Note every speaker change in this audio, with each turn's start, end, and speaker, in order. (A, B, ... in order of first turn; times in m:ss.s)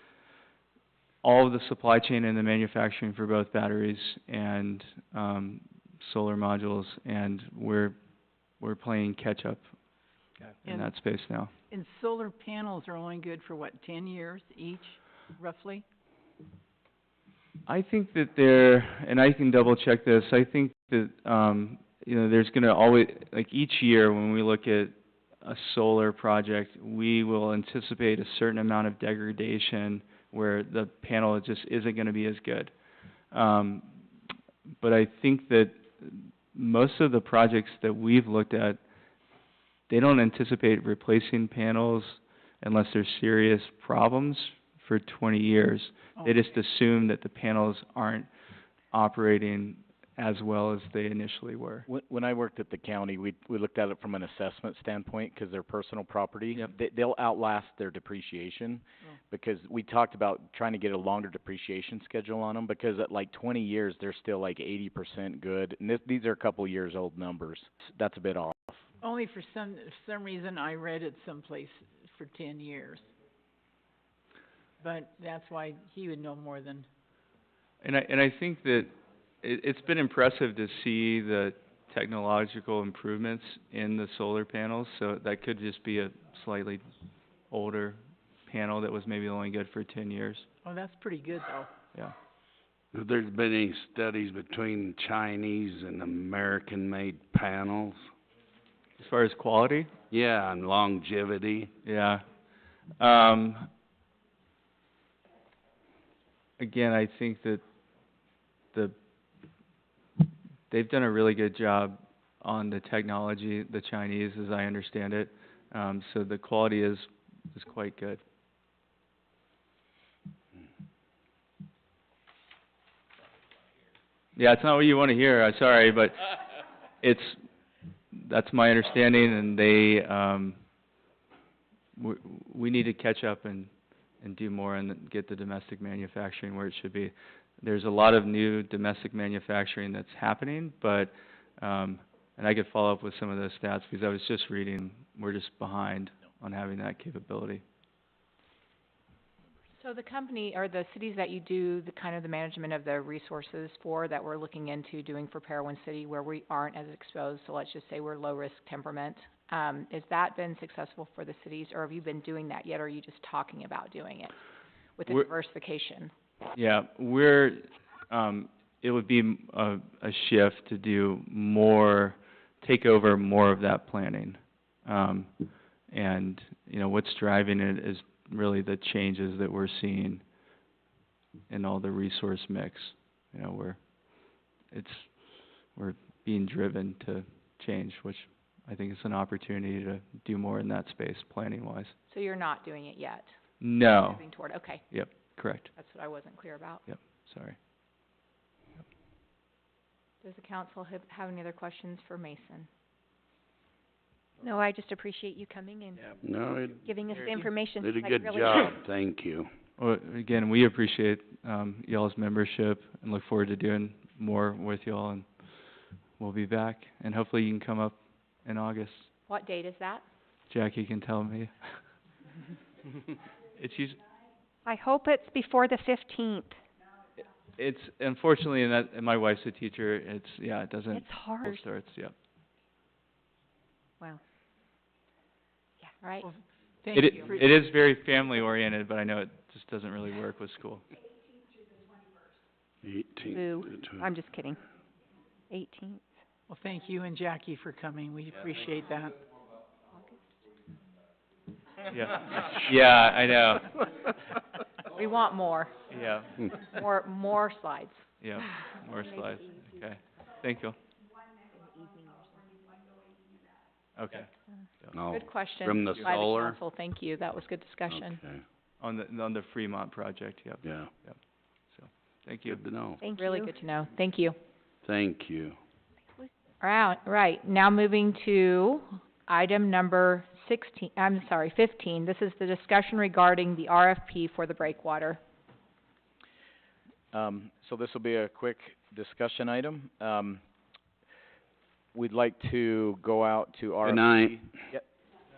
0:01.2-0:08.0 A
0:08.6-0:09.6 A
0:10.6-0:11.5 A
0:11.7-0:15.8 B
0:17.7-0:32.7 A
0:33.3-0:34.0 A
0:34.8-0:38.8 A
0:39.9-0:48.3 A
0:48.9-0:51.9 A
0:51.9-1:08.8 C
1:09.0-1:13.0 B
1:14.8-1:16.8 B
1:17.8-1:26.8 A
1:27.5-1:30.5 A
1:30.6-1:31.7 B
1:32.9-1:38.1 D
1:39.0-1:39.9 A
1:40.1-1:41.7 D
1:41.8-1:42.2 A
1:43.0-1:43.7 A
1:46.6-1:47.6 A
1:50.7-1:58.2 A
2:04.4-2:06.3 A
2:07.0-2:07.4 A
2:08.1-2:10.6 A
2:12.0-2:27.6 A
2:29.8-2:44.3 E
2:45.0-2:46.1 E
2:46.5-2:55.3 A
2:55.9-3:00.2 A
3:01.5-3:11.9 A
3:12.1-3:14.8 E
3:13.6-3:14.2 A
3:14.8-3:15.7 A
3:15.8-3:16.8 E
3:16.8-3:17.6 A
3:20.2-3:22.7 E
3:24.4-3:26.2 F
3:26.2-3:26.9 D
3:26.8-3:28.7 F
3:27.7-3:29.5 D
3:29.8-3:35.3 A
3:36.2-3:39.1 A
3:39.3-3:40.0 E
3:40.5-3:41.8 A
3:43.5-3:44.0 A
3:44.6-3:46.6 F
3:47.6-3:52.1 A
3:50.9-3:51.6 F
3:56.0-3:56.3 E
3:56.2-3:57.4 B
3:56.9-3:57.2 E
3:56.9-4:00.8 A
4:02.8-4:04.1 D
4:03.3-4:04.6 F
4:05.5-4:06.1 F
4:06.5-4:09.1 B
4:11.9-4:13.8 A
4:14.9-4:15.8 E
4:15.9-4:16.3 A
4:16.5-4:18.0 E
4:18.2-4:20.8 A
4:18.9-4:19.8 F
4:21.7-4:22.5 F
4:24.0-4:24.3 A
4:24.9-4:26.6 D
4:25.1-4:28.2 E
4:27.9-4:28.4 D
4:28.8-4:32.6 A
4:30.6-4:30.9 D
4:32.5-4:33.1 D
4:33.0-4:33.5 F
4:33.2-4:34.4 E
4:34.8-4:35.6 D
4:36.6-4:45.2 E
4:47.1-4:50.4 C
4:51.9-4:54.9 C
4:53.8-4:54.3 D